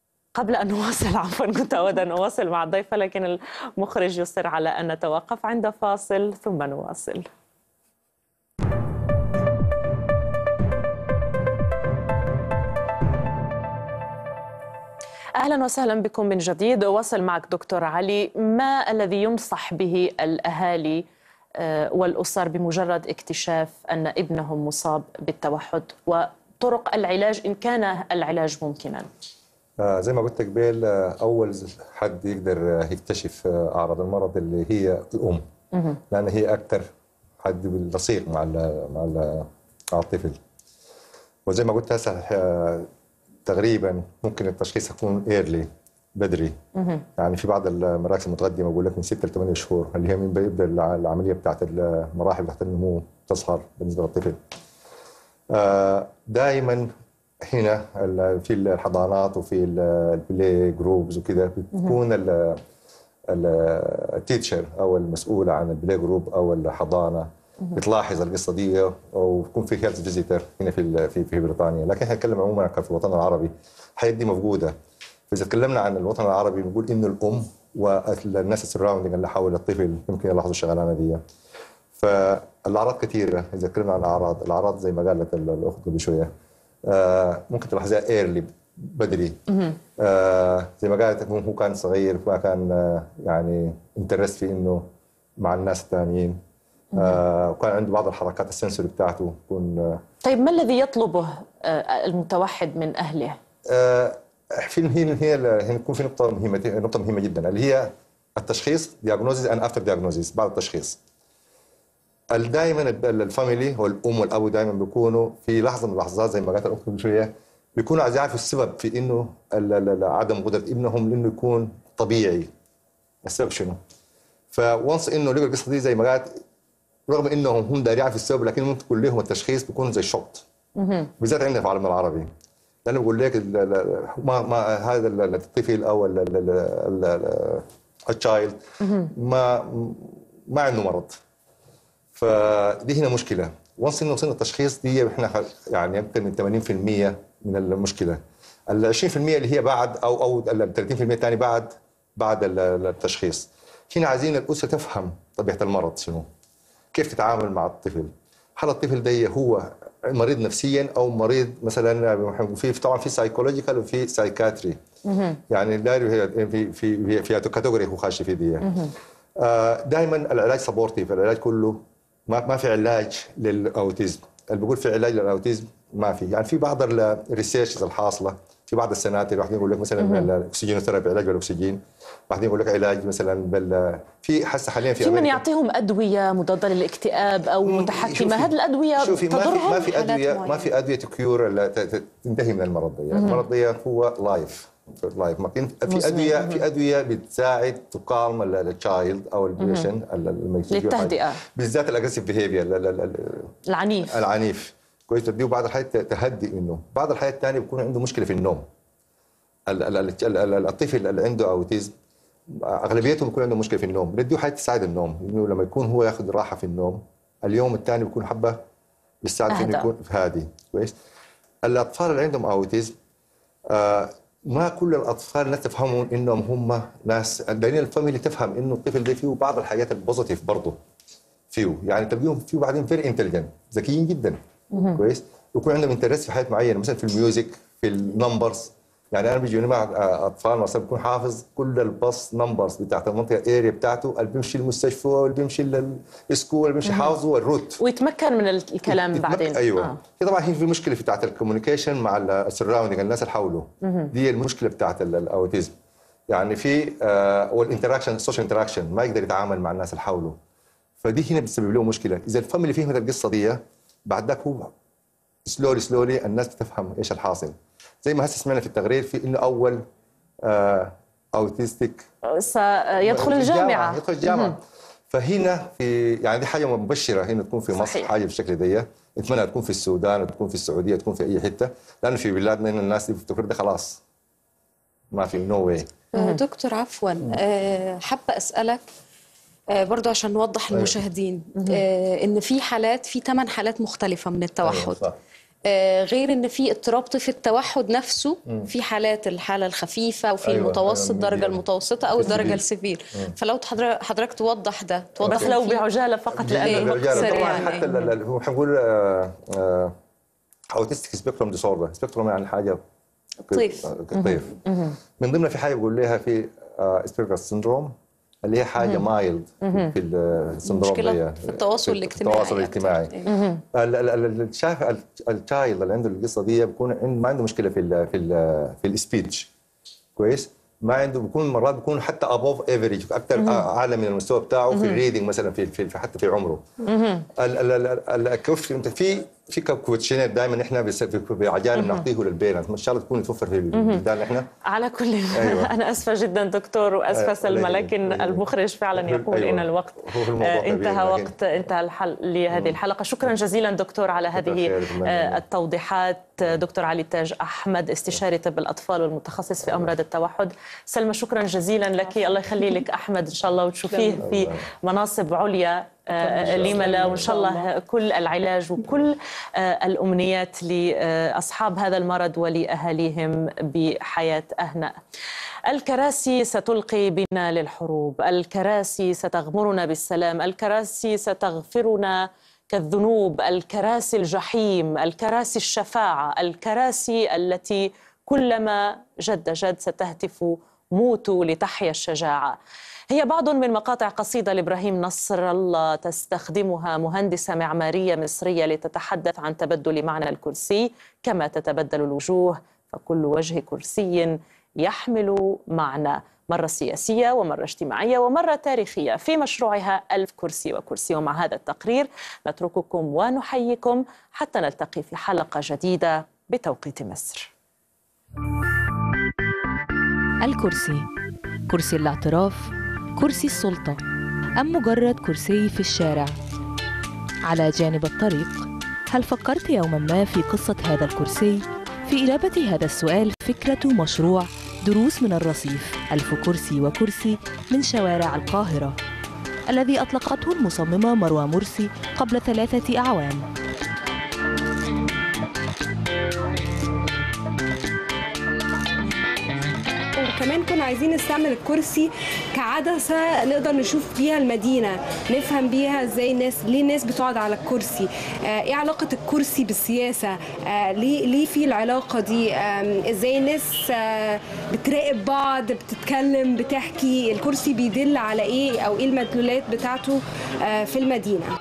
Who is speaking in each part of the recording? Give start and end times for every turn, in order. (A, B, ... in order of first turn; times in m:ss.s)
0:00.4-0:07.2 A
0:15.4-0:21.0 A
0:21.6-0:29.1 A
0:29.8-0:35.4 B
0:36.1-0:36.9 B
0:37.4-0:40.4 B
0:41.5-0:42.9 B
0:43.4-0:46.6 B
0:46.8-0:47.0 A
0:47.2-0:54.4 B
0:55.5-0:56.9 B
0:57.5-1:02.6 B
1:03.3-1:14.7 B
1:15.3-1:21.2 B
1:22.0-1:26.3 B
1:26.8-1:29.4 B
1:29.5-1:29.8 A
1:30.0-1:34.8 B
1:35.4-1:36.4 B
1:37.0-1:40.0 B
1:40.2-1:43.4 A
1:43.7-1:51.0 B
1:52.3-2:02.5 B
2:03.2-2:03.8 B
2:04.5-2:06.4 B
2:07.1-2:10.4 B
2:10.8-2:11.1 A
2:11.2-2:12.3 B
2:12.8-2:21.2 B
2:18.8-2:19.1 A
2:22.1-2:36.3 B
2:36.9-2:44.8 B
2:45.1-2:45.4 A
2:45.5-2:48.7 B
2:48.6-2:48.9 A
2:49.4-3:05.4 B
3:00.0-3:00.3 A
3:05.0-3:09.8 A
3:07.6-3:23.5 B
3:09.6-3:10.7 C
3:13.1-3:13.4 A
3:15.9-3:16.6 A
3:19.6-3:19.9 A
3:20.7-3:21.4 A
3:23.7-3:24.2 A
3:24.0-3:28.6 B
3:29.7-3:31.9 B
3:32.5-3:38.6 B
3:39.2-3:40.9 B
3:39.5-3:39.9 A
3:41.6-3:42.9 B
3:43.7-3:50.8 B
3:51.5-3:54.4 B
3:54.9-4:07.8 B
4:06.8-4:07.1 A
4:07.8-4:10.0 A
4:08.9-4:15.7 B
4:13.8-4:14.1 A
4:16.3-4:20.4 B
4:21.0-4:24.7 B
4:25.4-4:29.8 B
4:30.4-4:32.1 B
4:32.3-4:34.5 A
4:33.0-4:34.6 B
4:35.1-4:44.0 B
4:37.7-4:38.1 A
4:45.1-4:45.9 B
4:46.1-4:48.8 C
4:49.7-4:55.0 C
4:50.7-4:51.0 B
4:54.6-4:55.2 B
4:55.7-5:05.8 C
5:00.4-5:01.6 B
5:02.1-5:02.6 B
5:05.2-5:05.6 B
5:05.2-5:08.1 A
5:06.4-5:09.9 B
5:06.4-5:07.9 C
5:10.7-5:12.8 B
5:13.5-5:13.9 C
5:13.5-5:14.6 B
5:14.2-5:15.0 A
5:15.2-5:17.9 B
5:18.4-5:23.1 B
5:19.6-5:19.9 A
5:20.6-5:23.2 C
5:23.3-5:23.6 A
5:23.7-5:29.5 B
5:30.2-5:36.6 B
5:33.4-5:33.6 A
5:34.7-5:35.0 A
5:36.8-5:37.2 A
5:37.4-5:44.5 B
5:41.8-5:42.0 A
5:43.7-5:44.0 A
5:44.6-6:15.0 A
5:45.3-5:45.7 B
5:47.1-5:51.6 B
5:52.5-5:52.8 B
5:54.3-5:55.4 B
6:04.1-6:04.6 B
6:06.2-6:07.4 B
6:15.7-6:32.6 A
6:33.1-6:57.5 A
7:00.4-7:01.0 D
7:01.7-7:04.0 D
7:04.6-7:06.3 D
7:07.5-7:19.0 D
7:19.7-7:23.5 D
7:30.2-7:51.5 E